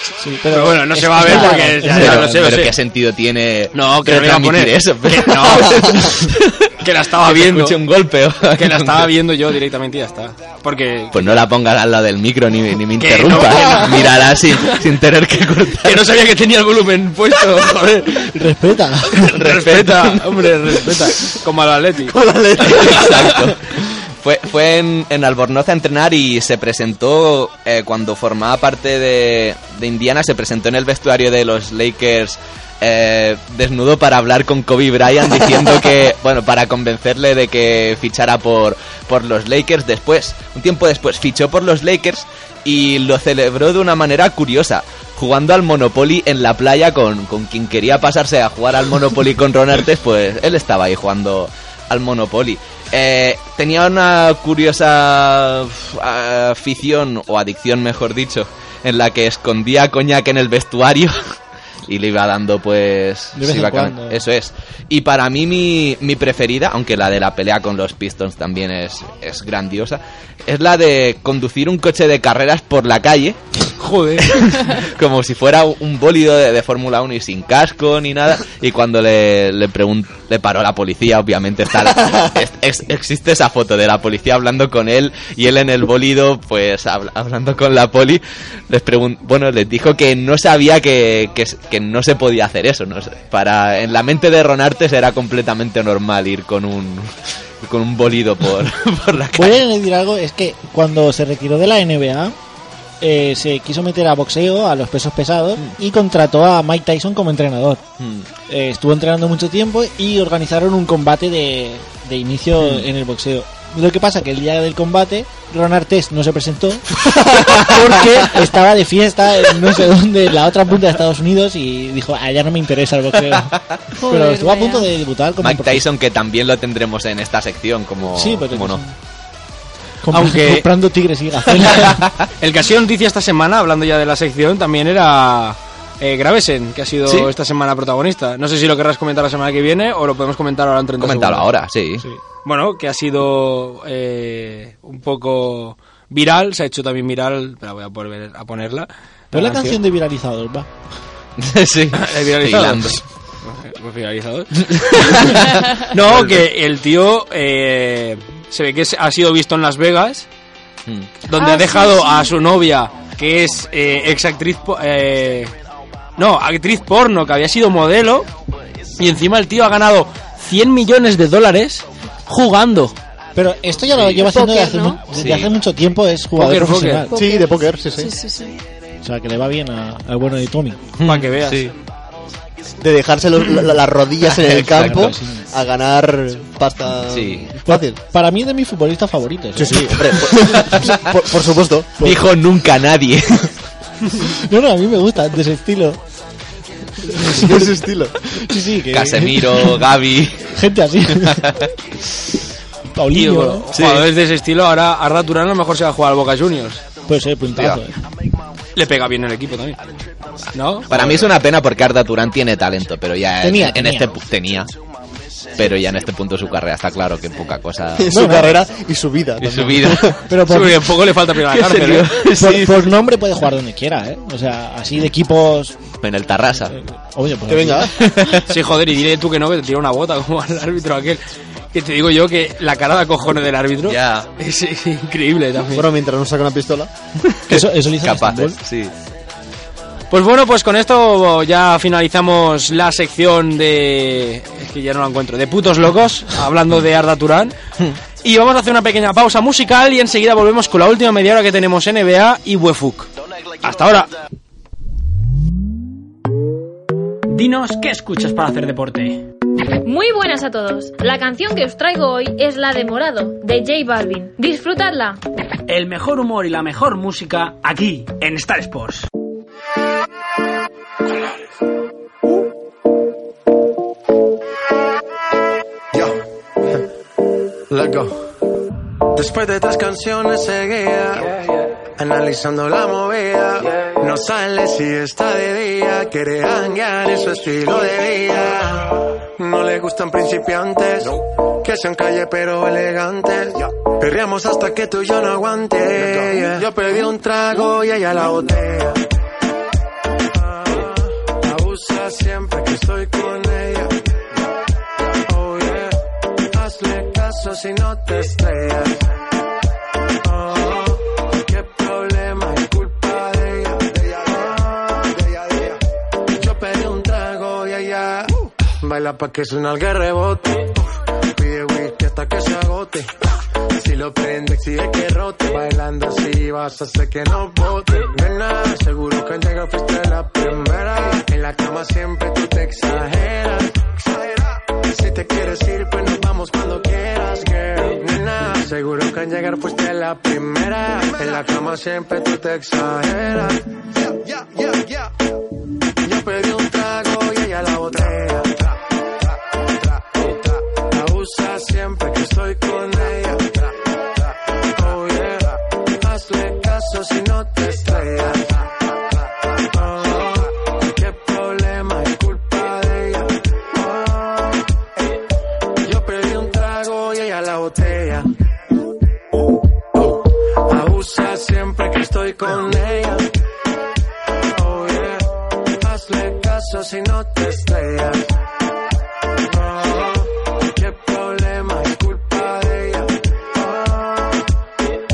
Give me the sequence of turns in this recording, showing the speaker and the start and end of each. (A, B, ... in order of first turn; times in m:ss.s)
0:00.2-0:02.6 A
0:00.5-0:02.7 B
0:01.3-0:09.1 C
0:03.7-0:06.1 B
0:06.8-0:07.8 B
0:08.5-0:11.4 B
0:11.1-0:16.1 C
0:13.0-0:14.8 B
0:15.8-0:18.3 B
0:18.2-0:19.3 A
0:19.2-0:22.1 B
0:19.3-0:20.5 C
0:22.1-0:23.1 D
0:22.6-1:01.4 C
0:22.7-0:23.1 B
1:01.9-1:13.4 C
1:03.4-1:04.2 A
1:13.8-1:14.7 B
1:14.4-1:39.6 C
1:39.3-1:42.3 A
1:43.0-1:47.8 A
1:48.0-1:48.3 C
1:48.5-2:05.8 A
2:04.0-2:04.9 E
2:05.4-2:08.8 C
2:08.1-2:08.9 A
2:10.0-2:12.1 A
2:10.1-2:10.7 B
2:12.4-2:21.5 B
2:21.0-2:22.0 C
2:22.4-2:29.8 B
2:29.3-2:30.7 A
2:31.4-2:33.0 C
2:32.0-2:40.3 B
2:34.9-2:36.4 C
2:41.3-2:45.5 B
2:41.4-2:42.3 E
2:46.2-2:48.3 B
2:49.0-2:53.0 B
2:53.3-2:57.2 A
2:54.2-2:55.0 E
2:55.1-2:55.5 C
2:56.3-2:57.1 B
2:57.1-2:58.6 E
2:57.1-2:58.1 D
2:59.0-3:00.9 A
3:01.0-3:01.7 C
3:01.0-3:01.7 B
3:02.8-3:08.0 D
3:04.4-3:05.5 A
3:04.7-3:05.1 C
3:07.1-3:07.5 C
3:07.6-3:10.9 A
3:09.6-3:12.2 D
3:10.6-3:10.9 C
3:12.0-3:13.5 C
3:14.2-3:16.0 A
3:17.1-3:17.7 A
3:17.2-3:18.2 D
3:18.3-3:19.9 A
3:18.9-3:20.5 C
3:20.5-3:21.5 A
3:21.2-3:21.7 C
3:22.9-3:23.7 A
3:23.1-3:26.8 B
3:23.7-3:24.1 C
3:27.1-3:28.0 A
3:27.6-3:27.8 C
3:28.7-3:29.8 B
3:30.5-3:31.0 B
3:30.9-3:34.7 C
3:33.4-3:34.1 A
3:35.5-3:38.3 C
3:38.0-3:40.2 D
3:38.1-3:38.6 A
3:39.4-3:40.2 C
3:40.3-3:40.9 A
3:40.4-3:42.1 B
3:41.4-3:42.9 C
3:42.4-3:45.8 A
3:46.0-3:46.7 C
3:46.7-3:48.0 A
3:47.5-3:48.0 D
3:48.0-3:48.5 C
3:48.4-3:51.2 B
3:51.7-3:55.9 B
3:53.8-3:54.3 C
3:55.7-3:56.9 D
3:57.5-3:58.9 C
3:57.5-3:58.6 A
4:00.1-4:07.5 B
4:08.2-4:13.1 B
4:13.6-4:14.1 B
4:17.3-4:19.2 F
4:19.8-4:25.2 G
4:25.7-4:29.1 F
4:37.7-4:38.1 H
4:39.1-4:41.3 H
4:42.0-4:59.0 H
5:00.3-5:03.9 H
5:05.2-5:09.0 H
5:10.2-5:15.8 H
5:16.3-5:23.1 H
5:23.7-5:45.1 H
5:46.0-5:48.8 H
5:50.0-5:53.9 H
5:54.7-5:58.8 H
5:59.6-6:04.6 H
6:05.8-6:08.3 H
6:09.9-6:13.2 H
6:14.4-6:18.2 H
6:19.4-6:24.4 H